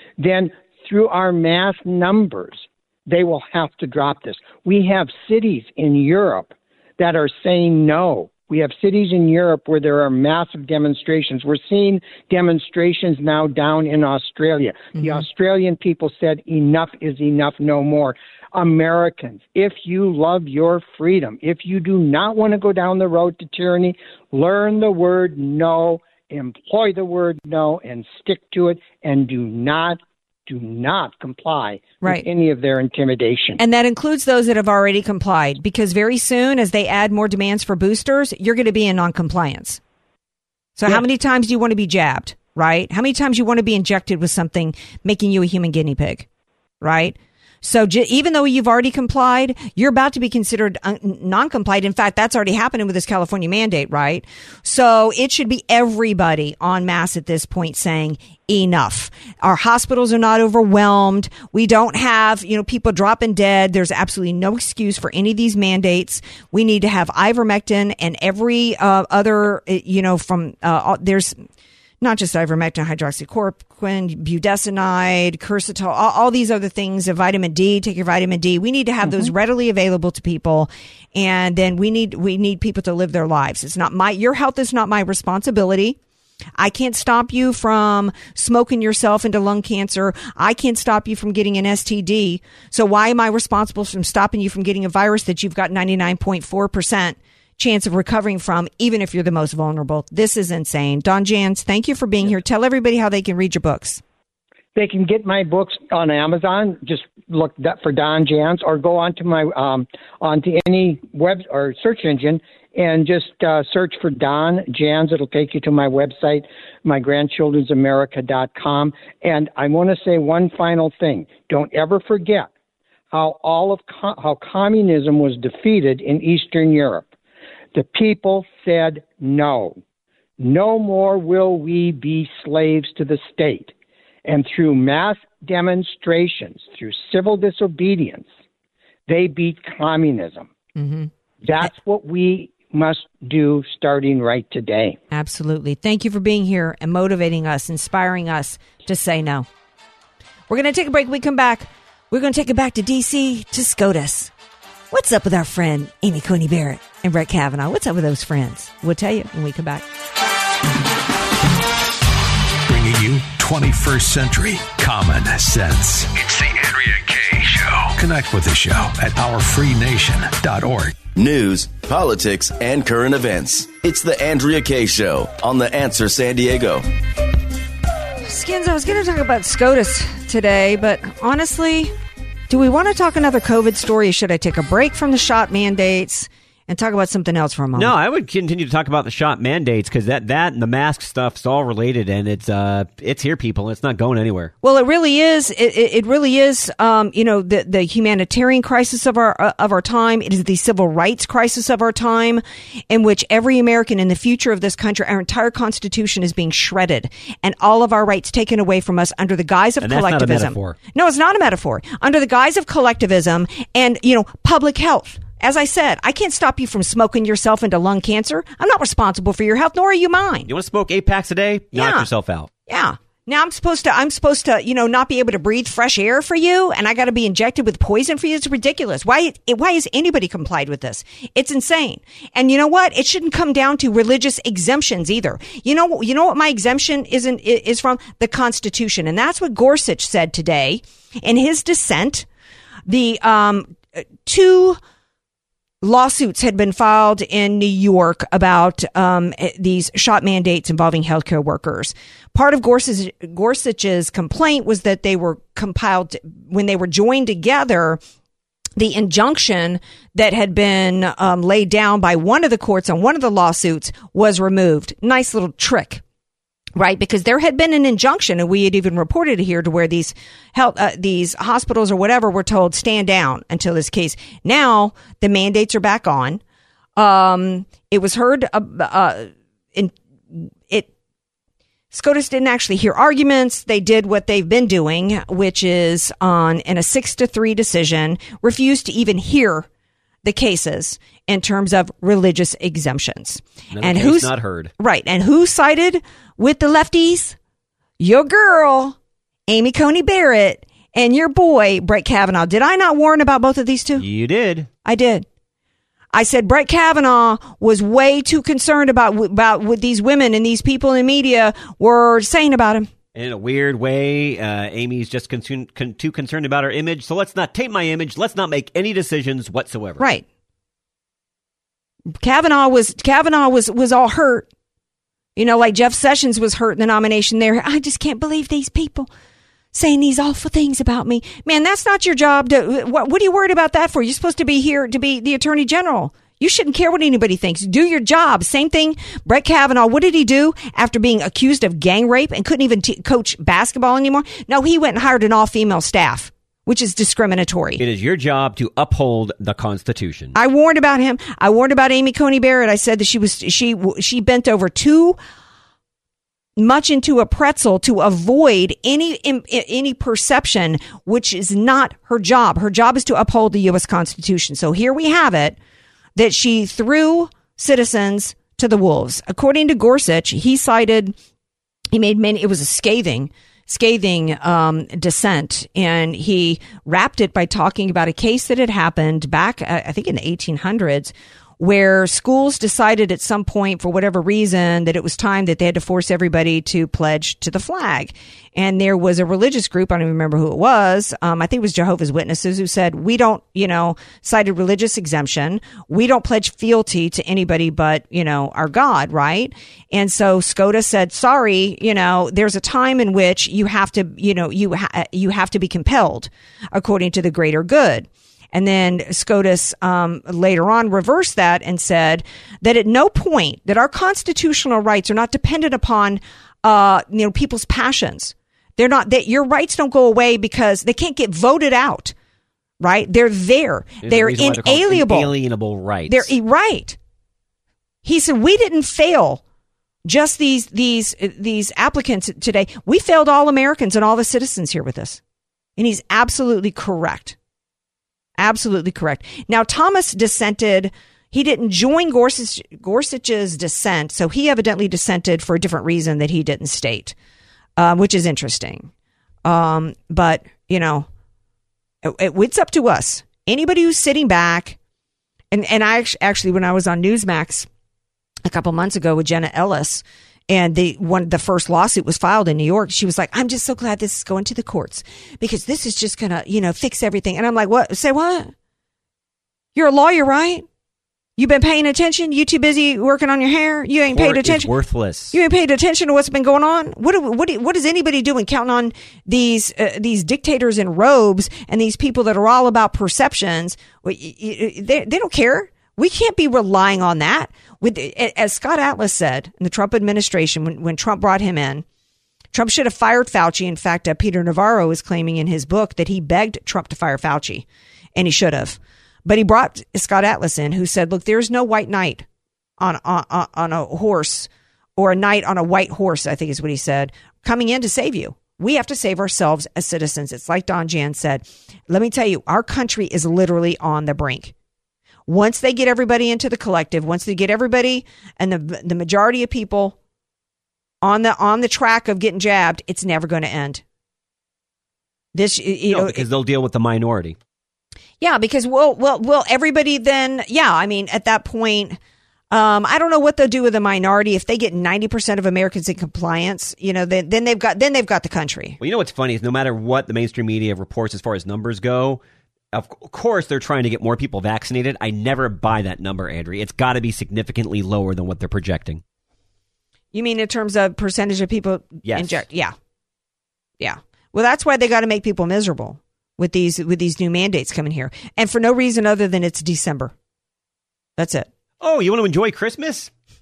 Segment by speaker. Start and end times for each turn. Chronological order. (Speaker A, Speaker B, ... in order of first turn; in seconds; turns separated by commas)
Speaker A: 0.2-33.6, Speaker B: 15.0-15.2, Speaker B: 32.0-32.2, Speaker B: 33.6-39.8, Speaker B: 40.8-46.2, Speaker B: 46.8-71.4, Speaker B: 72.0-86.0, Speaker B: 86.6-104.0, Speaker A: 104.7-122.5, Speaker A: 123.1-127.1, Speaker A: 127.7-129.8, Speaker A: 130.4-133.7, Speaker A: 134.2-138.3, Speaker A: 139.1-140.5, Speaker B: 140.8-141.1, Speaker A: 141.4-145.0, Speaker B: 145.1-149.5, Speaker B: 150.5-154.3, Speaker B: 154.9-159.8, Speaker C: 162.7-171.0, Speaker D: 171.1-176.8, Speaker B: 178.2-181.9, Speaker B: 182.5-187.9, Speaker E: 187.7-194.5, Speaker B: 194.6-220.5, Speaker E: 209.8-210.8, Speaker E: 220.5-222.5, Speaker B: 221.7-222.1, Speaker B: 222.7-242.2, Speaker B: 242.9-244.8, Speaker B: 245.8-258.0, Speaker B: 258.8-266.0, Speaker B: 266.8-276.4, Speaker B: 277.0-280.9, Speaker B: 281.9-289.7, Speaker B: 290.2-297.4, Speaker E: 293.7-294.7, Speaker B: 298.0-299.0, Speaker B: 299.5-304.0, Speaker E: 304.0-304.7, Speaker B: 304.8-305.2, Speaker B: 306.1-312.9, Speaker E: 313.1-320.1, Speaker B: 320.0-320.2, Speaker B: 322.2-324.5, Speaker B: 325.4-329.1, Speaker B: 329.7-347.8, Speaker E: 347.8-350.4, Speaker B: 350.3-355.2, Speaker B: 356.6-365.6, Speaker B: 366.1-371.1, Speaker B: 371.9-422.1, Speaker B: 422.8-425.3, Speaker E: 424.0-426.3, Speaker B: 426.1-427.0, Speaker B: 428.0-429.4, Speaker B: 430.0-435.2, Speaker B: 435.8-437.4, Speaker B: 438.4-447.1, Speaker B: 447.8-448.9, Speaker B: 449.4-451.1, Speaker B: 452.0-454.8, Speaker B: 455.5-457.7, Speaker B: 458.4-468.5, Speaker B: 469.7-470.6, Speaker B: 471.4-474.7, Speaker E: 474.1-475.4, Speaker B: 475.3-491.8, Speaker B: 492.5-502.2, Speaker B: 502.8-514.5, Speaker B: 515.3-520.0, Speaker B: 521.0-523.8, Speaker B: 525.3-526.2, Speaker E: 525.9-527.4, Speaker B: 528.2-532.0, Speaker B: 532.5-538.8, Speaker E: 538.8-542.2, Speaker E: 542.7-549.0, Speaker B: 550.1-552.7, Speaker E: 552.0-552.4, Speaker B: 553.8-560.1, Speaker B: 561.2-561.5, Speaker E: 561.8-563.1